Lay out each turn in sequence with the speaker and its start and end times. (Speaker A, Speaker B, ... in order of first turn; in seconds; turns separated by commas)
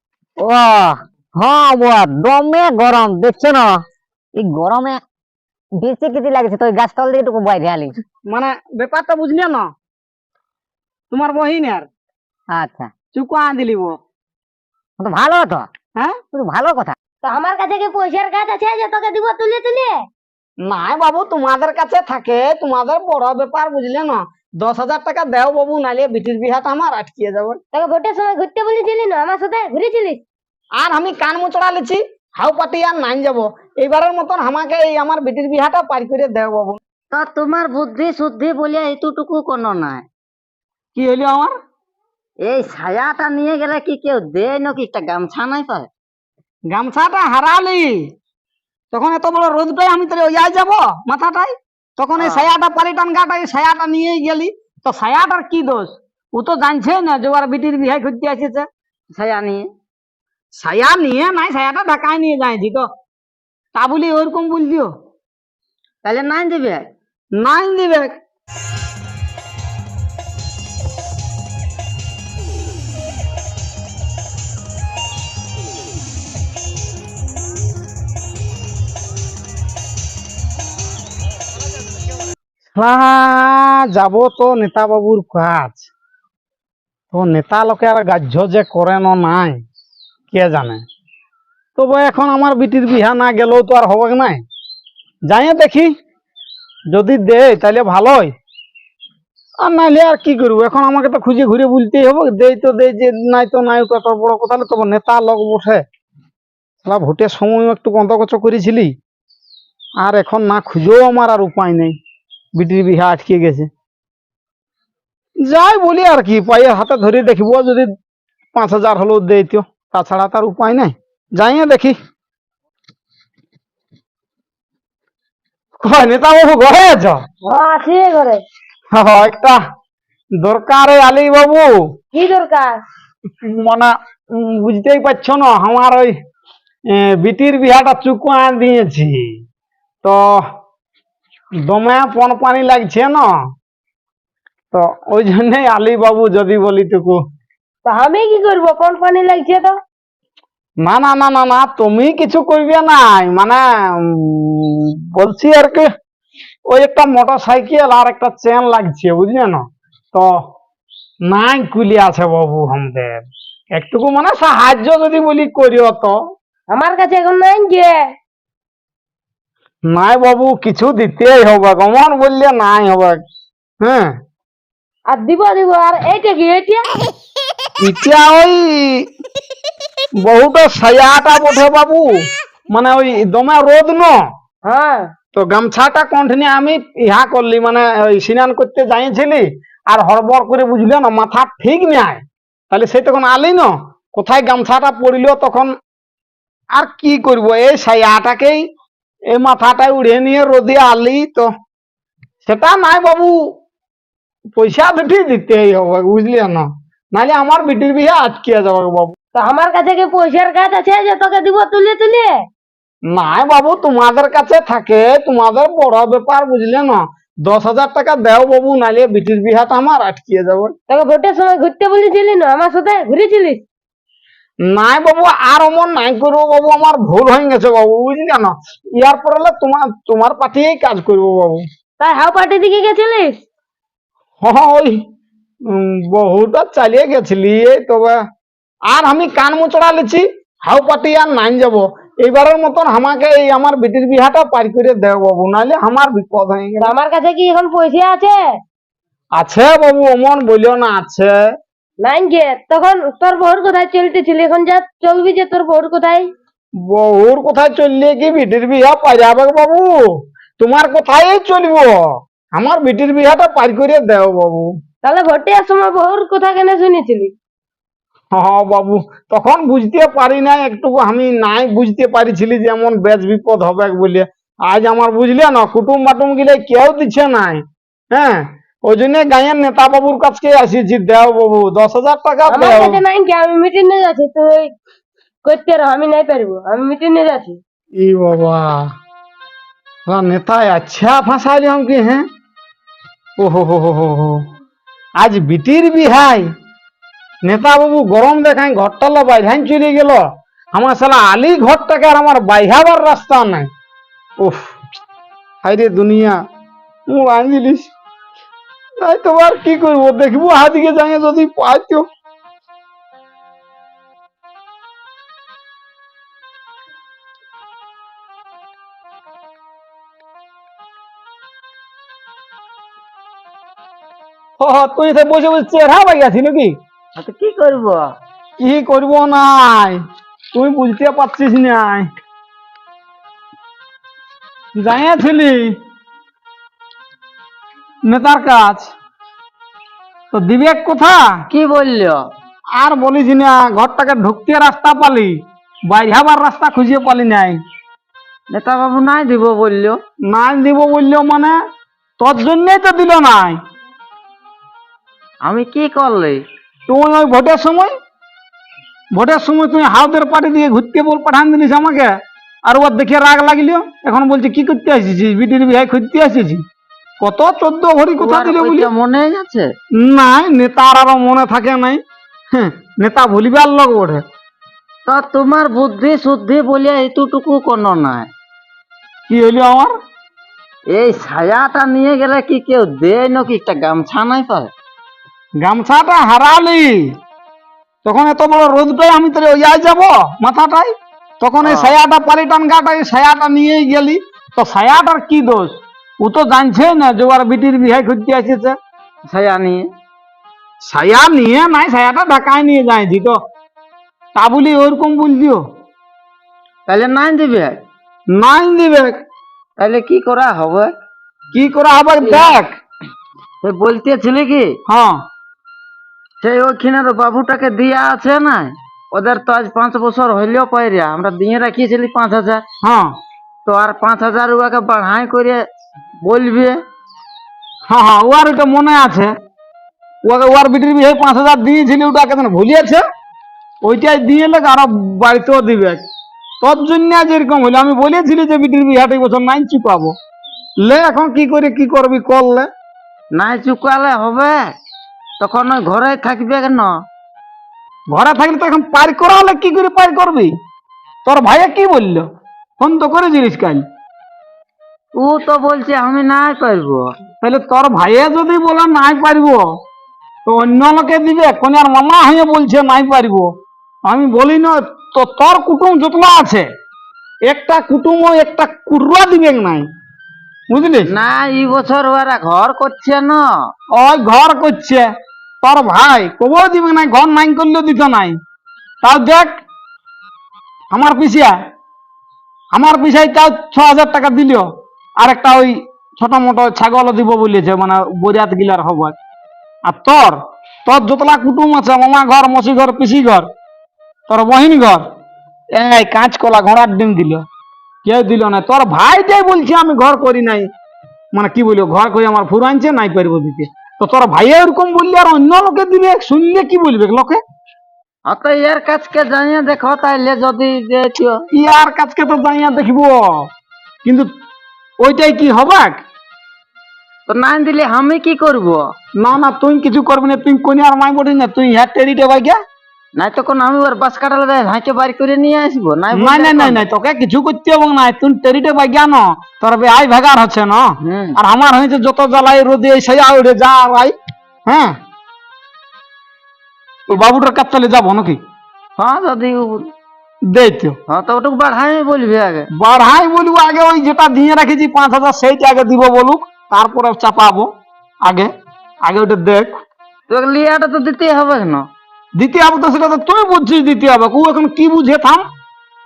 Speaker A: 0.4-3.8, Speaker A: 4.4-5.0, Speaker A: 5.8-8.0, Speaker B: 8.3-9.7, Speaker B: 11.1-11.9, Speaker A: 12.5-12.9, Speaker B: 13.1-14.0, Speaker A: 15.0-15.7, Speaker A: 16.3-16.9, Speaker C: 17.2-19.9, Speaker B: 20.6-27.6, Speaker C: 27.7-30.2, Speaker B: 30.8-36.8, Speaker D: 37.1-40.1, Speaker B: 41.0-41.5, Speaker D: 42.5-45.9, Speaker B: 46.7-48.0, Speaker B: 48.9-58.7, Speaker D: 52.2-52.5, Speaker D: 59.1-59.7, Speaker B: 60.5-62.9, Speaker B: 63.8-64.9, Speaker D: 66.0-66.9, Speaker B: 67.4-68.2, Speaker B: 82.8-85.9, Speaker B: 87.1-89.6, Speaker B: 90.3-90.8, Speaker B: 91.8-94.4, Speaker B: 95.3-95.9, Speaker B: 96.9-98.3, Speaker B: 99.6-105.8, Speaker B: 106.8-108.9, Speaker B: 110.0-112.0, Speaker B: 112.6-113.7, Speaker B: 115.4-117.9, Speaker B: 118.5-122.0, Speaker B: 125.8-127.2, Speaker C: 127.4-128.4, Speaker B: 128.9-129.6, Speaker B: 130.4-131.7, Speaker C: 132.1-132.7, Speaker B: 133.4-136.2, Speaker B: 136.9-139.3, Speaker B: 140.0-140.4, Speaker B: 141.7-143.3, Speaker B: 144.7-147.2, Speaker C: 147.8-149.7, Speaker B: 150.8-155.8, Speaker B: 156.7-160.3, Speaker B: 161.3-163.2, Speaker B: 163.8-166.2, Speaker C: 166.7-168.0, Speaker B: 169.9-173.2, Speaker B: 173.8-174.1, Speaker C: 175.1-176.8, Speaker B: 177.8-179.1, Speaker B: 180.2-182.1, Speaker B: 182.7-184.1, Speaker C: 184.6-185.0, Speaker B: 185.3-195.7, Speaker B: 196.8-198.6, Speaker B: 199.3-201.5, Speaker B: 202.4-203.4, Speaker B: 204.6-209.2, Speaker C: 209.3-212.3, Speaker B: 213.1-220.7, Speaker C: 220.9-223.6, Speaker B: 224.7-231.6, Speaker C: 232.0-233.4, Speaker B: 234.4-235.0, Speaker B: 235.7-238.2, Speaker B: 238.9-246.9, Speaker C: 246.8-248.4, Speaker B: 249.4-251.3, Speaker C: 252.0-256.3, Speaker B: 256.8-260.0, Speaker B: 260.6-262.0, Speaker B: 262.6-264.7, Speaker C: 265.0-267.3, Speaker B: 268.3-283.0, Speaker C: 282.5-284.7, Speaker C: 285.4-287.6, Speaker B: 288.0-288.8, Speaker B: 290.1-292.2, Speaker B: 293.4-294.4, Speaker B: 295.2-296.5, Speaker B: 297.4-300.2, Speaker B: 300.7-303.7, Speaker B: 304.4-304.8, Speaker B: 305.6-306.4, Speaker B: 307.1-307.9, Speaker B: 309.0-312.1, Speaker B: 324.6-326.8, Speaker D: 327.2-328.1, Speaker B: 328.6-330.0, Speaker B: 330.5-332.1, Speaker B: 334.8-335.8, Speaker B: 338.1-338.9, Speaker B: 340.3-341.2, Speaker D: 341.5-342.2, Speaker B: 342.8-347.6, Speaker D: 348.5-350.0, Speaker B: 350.2-351.6, Speaker B: 352.2-353.6, Speaker D: 355.4-356.4, Speaker B: 356.9-357.9, Speaker B: 359.1-362.1, Speaker B: 362.7-366.6, Speaker B: 367.2-368.9, Speaker D: 368.2-369.7, Speaker B: 370.0-372.0, Speaker B: 372.5-374.2, Speaker D: 375.1-378.3, Speaker B: 379.3-379.9, Speaker D: 380.9-384.7, Speaker B: 385.6-387.1, Speaker B: 388.0-398.8, Speaker D: 391.6-391.9, Speaker D: 399.3-399.9, Speaker B: 400.8-403.4, Speaker B: 404.4-405.6, Speaker D: 406.9-407.8, Speaker B: 408.3-409.2, Speaker D: 409.8-410.9, Speaker B: 411.5-412.7, Speaker D: 412.2-412.5, Speaker D: 413.6-414.8, Speaker B: 414.9-415.2, Speaker D: 416.4-422.6, Speaker B: 422.8-423.1, Speaker D: 423.6-425.6, Speaker D: 426.2-426.8, Speaker B: 427.9-429.3, Speaker B: 430.2-433.0, Speaker B: 433.8-436.0, Speaker B: 436.6-440.1, Speaker B: 440.8-442.7, Speaker D: 443.3-444.6, Speaker D: 445.4-447.0, Speaker B: 448.1-450.5, Speaker B: 451.2-452.3, Speaker B: 452.8-453.9, Speaker D: 455.1-457.1, Speaker B: 457.4-459.6, Speaker B: 460.5-463.5, Speaker B: 464.1-466.7, Speaker B: 467.4-469.9, Speaker B: 470.7-471.1, Speaker D: 471.1-473.4, Speaker B: 473.9-475.1, Speaker B: 475.6-478.4, Speaker B: 479.0-479.5, Speaker B: 480.9-481.6, Speaker B: 482.7-484.7, Speaker B: 485.2-489.2, Speaker B: 489.9-493.5, Speaker B: 494.3-495.0, Speaker B: 495.7-497.4, Speaker B: 498.0-500.7, Speaker B: 501.3-507.4, Speaker D: 508.3-511.4, Speaker B: 511.5-513.5, Speaker B: 515.0-516.0, Speaker D: 517.3-518.8, Speaker B: 519.2-522.6, Speaker D: 523.2-526.9, Speaker B: 526.1-534.1, Speaker D: 531.0-531.4, Speaker B: 534.7-535.0, Speaker B: 537.1-538.4, Speaker D: 539.0-539.9, Speaker B: 540.5-541.0, Speaker D: 541.1-542.7, Speaker B: 542.7-547.7, Speaker B: 548.2-548.5, Speaker B: 549.0-549.8, Speaker D: 550.3-551.9, Speaker B: 552.4-555.5